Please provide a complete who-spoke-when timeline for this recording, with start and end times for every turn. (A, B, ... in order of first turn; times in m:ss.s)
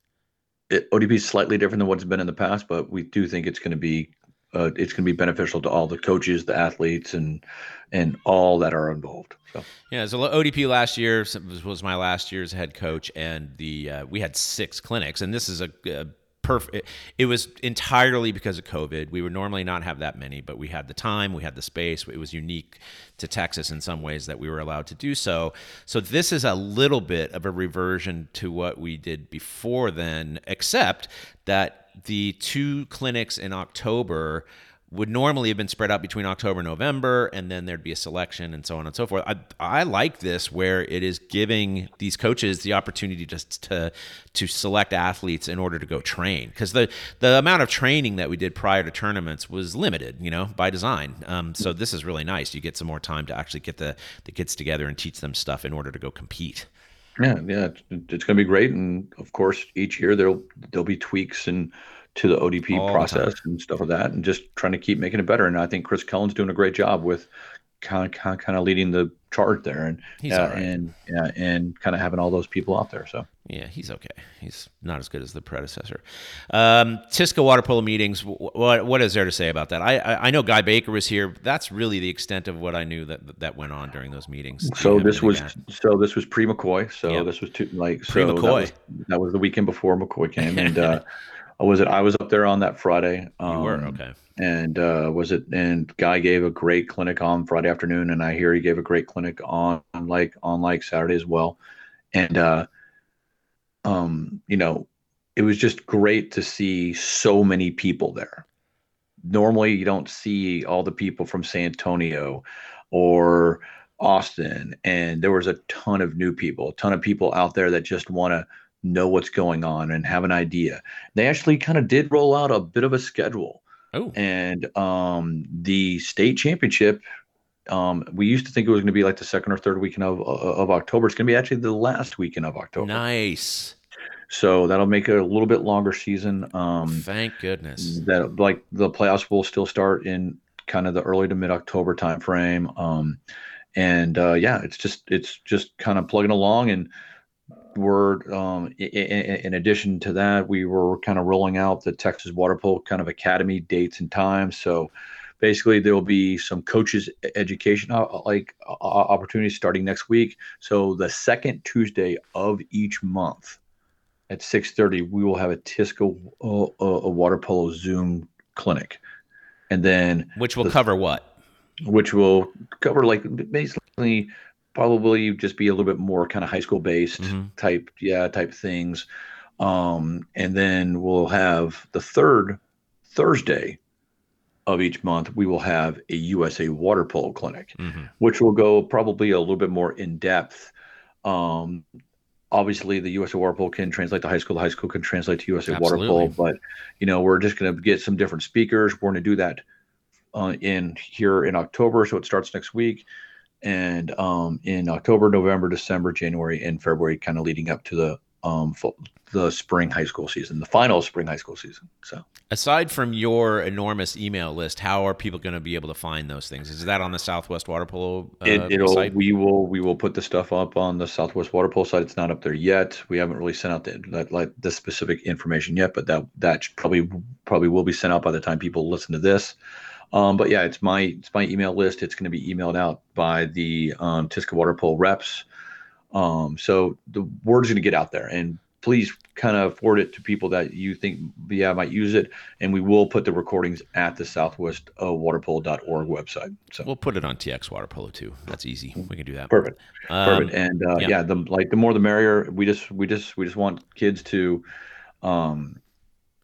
0:00.7-0:09.6 A
0:09.9-0:56.7 B
0:57.2-1:07.3 A
1:02.7-1:03.3 B
1:07.8-1:13.3 A
1:10.2-1:10.8 B
1:13.4-1:25.5 B
1:24.6-1:31.1 A
1:28.1-1:28.7 B
1:30.4-1:31.0 B
1:31.6-1:41.6 A
1:33.5-1:34.2 B
1:42.1-1:42.7 A
1:43.8-1:48.4 A
1:49.2-2:03.6 A
2:04.1-2:07.0 A
2:07.7-2:13.0 A
2:12.8-2:13.8 B
2:14.3-2:17.0 A
2:16.9-2:18.0 B
2:17.8-2:23.2 A
2:23.7-2:26.9 A
2:27.7-2:43.6 A
2:44.3-2:49.0 A
2:49.7-2:50.8 A
2:50.4-2:51.3 B
2:51.8-2:59.0 A
2:57.2-2:57.5 B
2:59.6-3:03.8 A
3:04.6-3:10.7 A
3:07.8-3:08.1 B
3:11.2-3:11.8 A
3:12.5-3:19.6 A
3:15.7-3:16.4 B
3:20.3-3:23.1 A
3:23.6-3:32.2 A
3:32.5-3:39.2 B
3:38.4-3:49.6 A
3:50.1-3:55.4 A
3:56.1-4:06.8 A
4:06.8-4:09.6 B
4:09.5-4:14.6 A
4:10.1-4:11.1 B
4:15.2-4:15.8 A